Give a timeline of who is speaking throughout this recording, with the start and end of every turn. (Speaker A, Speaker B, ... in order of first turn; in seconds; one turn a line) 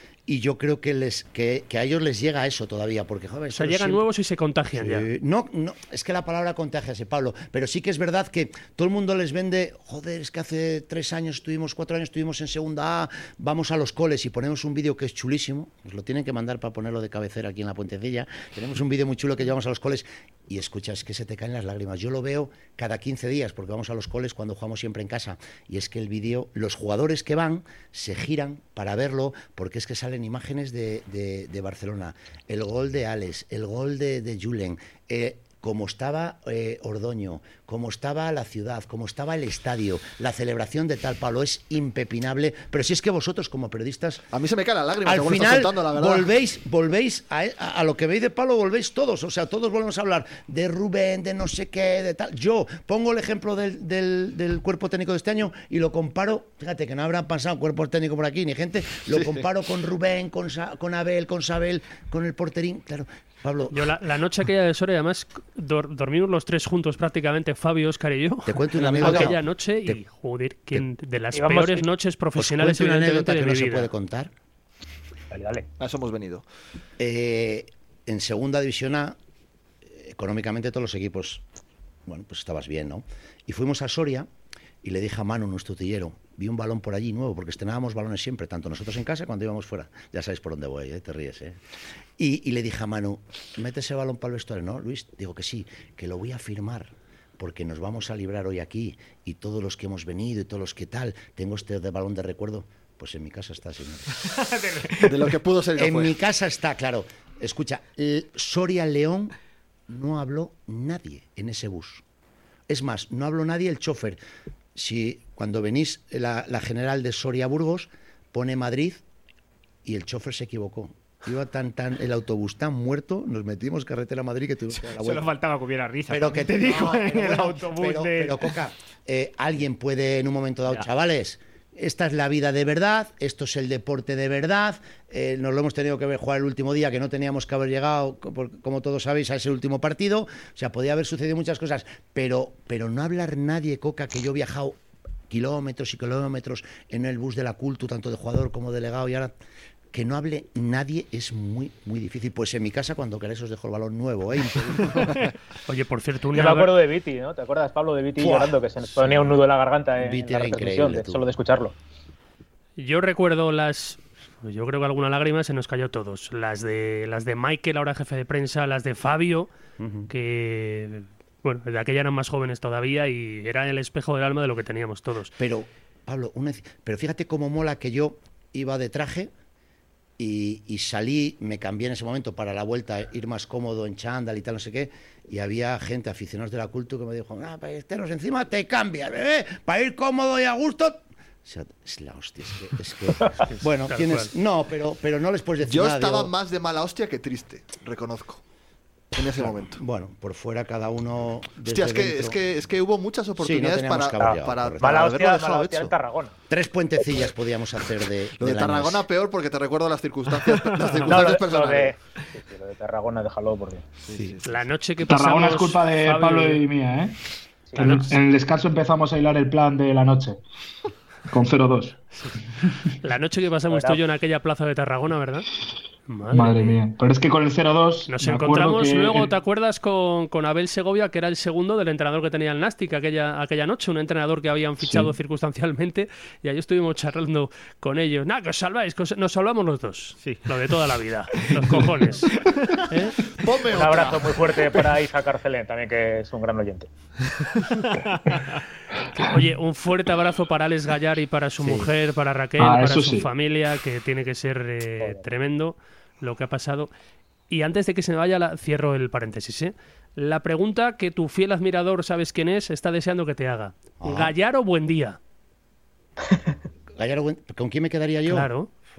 Speaker A: 0.3-4.0
Speaker B: 3.5-5.1
Speaker A: 4.8-44.2
Speaker C: 44.3-46.3
Speaker A: 45.0-63.9
Speaker C: 59.1-59.4
Speaker B: 63.7-73.9
Speaker A: 68.5-70.0
Speaker D: 68.8-69.3
Speaker D: 71.3-71.8
Speaker A: 72.3-74.3
Speaker D: 75.3-75.7
Speaker C: 75.8-76.4
Speaker A: 77.0-79.2
Speaker A: 79.9-81.4
Speaker A: 82.0-84.3
Speaker A: 84.8-91.6
Speaker A: 92.2-104.3
Speaker E: 104.3-105.0
Speaker C: 105.0-106.2
Speaker A: 105.8-109.3
Speaker A: 109.9-112.0
Speaker A: 112.7-114.2
Speaker A: 114.7-119.0
Speaker A: 119.8-125.3
Speaker E: 124.8-128.5
Speaker A: 126.1-144.8
Speaker A: 145.3-149.3
Speaker A: 149.9-155.1
Speaker B: 155.7-156.8
Speaker D: 156.3-161.7
Speaker A: 158.2-159.4
Speaker A: 160.0-161.2
Speaker B: 162.8-169.5
Speaker A: 169.8-170.1
Speaker B: 170.1-175.3
Speaker A: 175.4-179.3
Speaker A: 180.2-196.3
Speaker B: 193.5-194.3
Speaker C: 195.6-198.4
Speaker C: 199.1-199.8
Speaker A: 199.3-202.4
Speaker C: 201.7-205.9
Speaker A: 203.4-205.1
Speaker D: 204.2-206.3
Speaker A: 206.5-209.1
Speaker C: 208.4-211.9
Speaker E: 210.7-211.1
Speaker D: 211.1-213.9
Speaker C: 214.0-214.6
Speaker B: 214.4-216.6
Speaker F: 215.0-217.2
Speaker D: 217.7-218.0
Speaker F: 217.7-220.4
Speaker B: 217.8-218.1
Speaker F: 221.3-222.0
Speaker B: 223.0-225.5
Speaker D: 223.7-224.0
Speaker B: 226.1-226.8
Speaker F: 226.3-229.3
Speaker B: 228.1-242.3
Speaker F: 234.8-235.1
Speaker E: 242.3-242.8
Speaker B: 242.9-243.2
Speaker C: 243.4-244.8
Speaker D: 243.7-246.9
Speaker E: 247.8-248.6
Speaker B: 249.1-256.9
Speaker F: 252.6-253.3
Speaker B: 257.5-265.2
Speaker A: 264.0-264.3
Speaker A: 266.9-268.5
Speaker B: 268.3-268.7